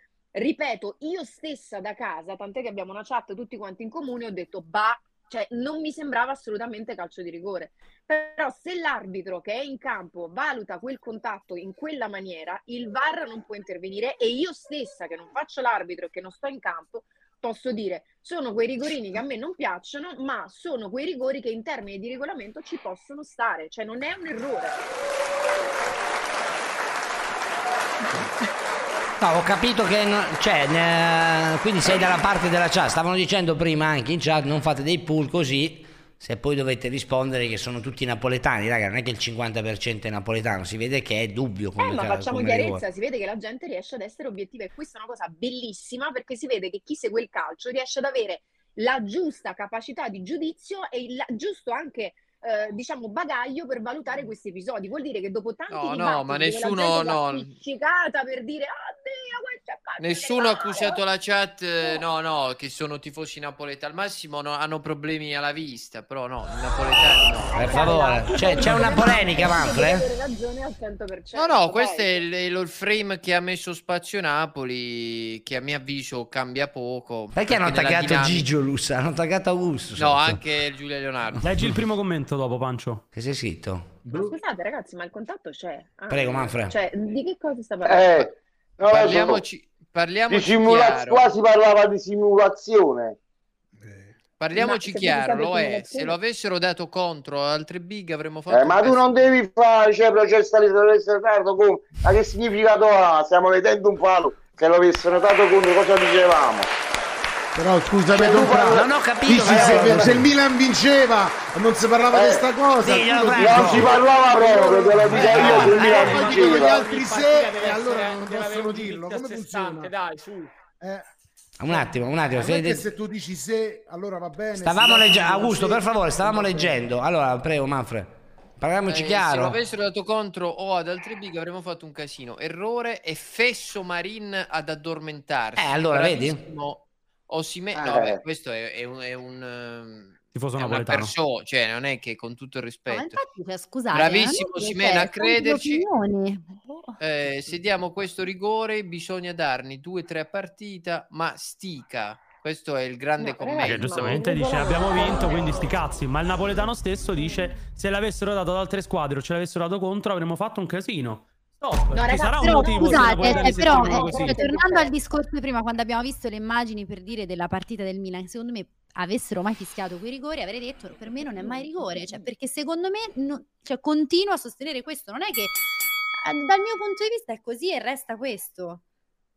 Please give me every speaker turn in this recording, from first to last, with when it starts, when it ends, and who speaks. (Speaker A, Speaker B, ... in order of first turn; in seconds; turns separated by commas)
Speaker A: 0.3-24.8, Speaker B: 29.2-42.8, Speaker A: 41.8-61.0, Speaker C: 55.7-57.5, Speaker C: 60.0-68.4, Speaker A: 67.5-72.2, Speaker B: 67.5-70.1, Speaker C: 71.3-78.5, Speaker B: 77.3-80.4, Speaker C: 80.0-81.5, Speaker D: 81.4-83.0, Speaker B: 83.1-84.0, Speaker A: 84.1-88.3, Speaker B: 86.1-86.8, Speaker E: 87.8-89.4, Speaker C: 88.8-91.3, Speaker E: 90.3-93.2, Speaker F: 93.8-94.1, Speaker C: 94.4-99.2, Speaker A: 94.5-96.2, Speaker E: 98.5-106.7, Speaker F: 107.5-119.9, Speaker E: 108.1-110.2, Speaker B: 108.3-110.2, Speaker E: 112.1-112.5, Speaker B: 112.8-113.9, Speaker E: 113.3-116.8, Speaker B: 115.3-116.2, Speaker G: 115.5-120.5, Speaker F: 120.8-121.0, Speaker B: 121.6-122.8, Speaker F: 121.7-126.8, Speaker B: 124.5-129.6, Speaker C: 128.9-143.2, Speaker B: 135.6-136.4, Speaker E: 137.7-138.2, Speaker D: 140.3-141.1, Speaker H: 142.9-146.9, Speaker C: 143.9-145.8, Speaker C: 147.0-154.2, Speaker A: 153.2-155.8, Speaker D: 153.6-164.4, Speaker A: 161.9-164.9, Speaker H: 162.4-175.6, Speaker A: 171.3-172.3, Speaker H: 176.2-178.8